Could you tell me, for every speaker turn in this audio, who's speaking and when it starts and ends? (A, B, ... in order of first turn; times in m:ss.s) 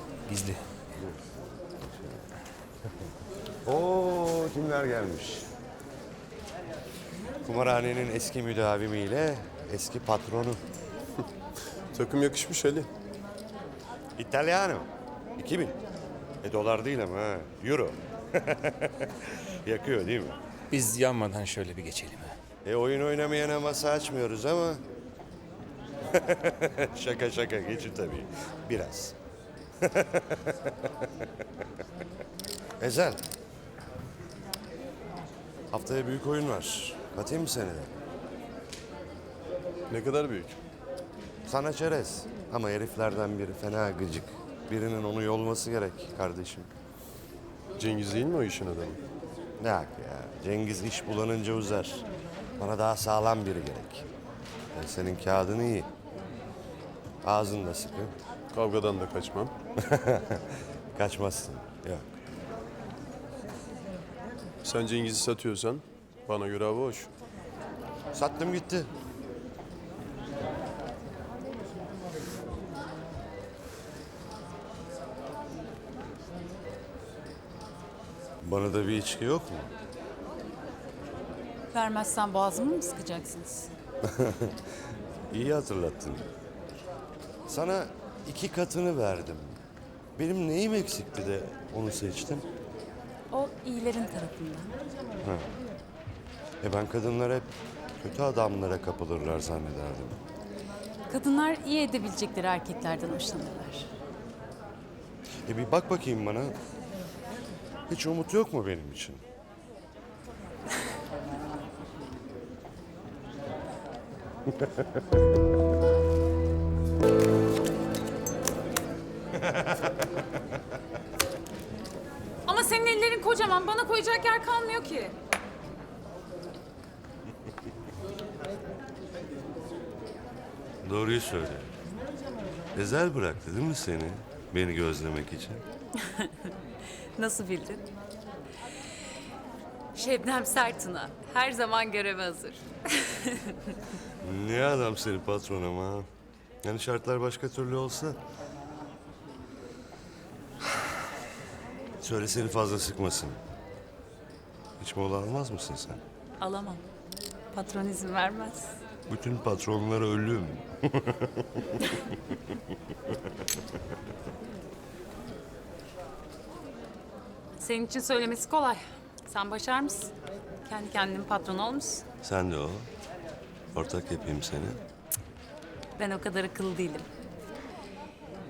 0:00.3-0:00.6 A
0:01.8-0:02.2 B
0:03.6-0:05.5 B
0:07.4-0:10.6 B
0:11.9-0:12.9 C
0:14.2-0:15.8 B
0:16.4-0:20.4 B
0:20.7-0:22.3 A
0:22.6-0:24.8 B
0:26.1-0:29.2 B
0:29.8-0:31.0 B
0:32.8-0:33.2 B
0:35.7-0:37.9 B
0:39.9-0:40.6 C
0:41.5-0:46.7 B
0:47.8-0:49.0 C
0:49.6-0:52.1 B
0:52.6-0:54.1 B
0:54.7-0:55.9 B
0:57.2-0:58.1 B
0:58.5-0:59.5 C
0:59.9-1:00.4 B
1:01.0-1:02.1 B
1:04.6-1:07.1 C
1:08.1-1:08.9 B
1:18.4-1:19.7 B
1:21.7-1:23.7 D
1:24.0-1:24.6 B
1:25.3-1:26.3 B
1:27.5-1:29.6 B
1:30.2-1:32.5 B
1:33.3-1:34.8 D
1:35.2-1:35.5 B
1:36.6-1:40.2 B
1:41.1-1:43.9 D
1:45.5-1:46.6 B
1:47.9-1:49.2 B
2:02.5-2:05.2 D
2:10.8-2:11.7 B
2:12.8-2:15.6 B
2:16.0-2:16.5 D
2:17.2-2:17.9 D
2:19.9-2:23.8 D
2:24.2-2:26.1 B
2:26.6-2:28.2 B
2:32.0-2:33.4 B
2:34.8-2:36.0 B
2:36.4-2:36.8 D
2:37.5-2:38.7 D
2:39.1-2:41.2 B
2:47.6-2:50.1 D
2:50.6-2:52.0 D
2:52.2-2:52.9 B
2:53.7-2:54.8 B
2:56.0-2:57.1 D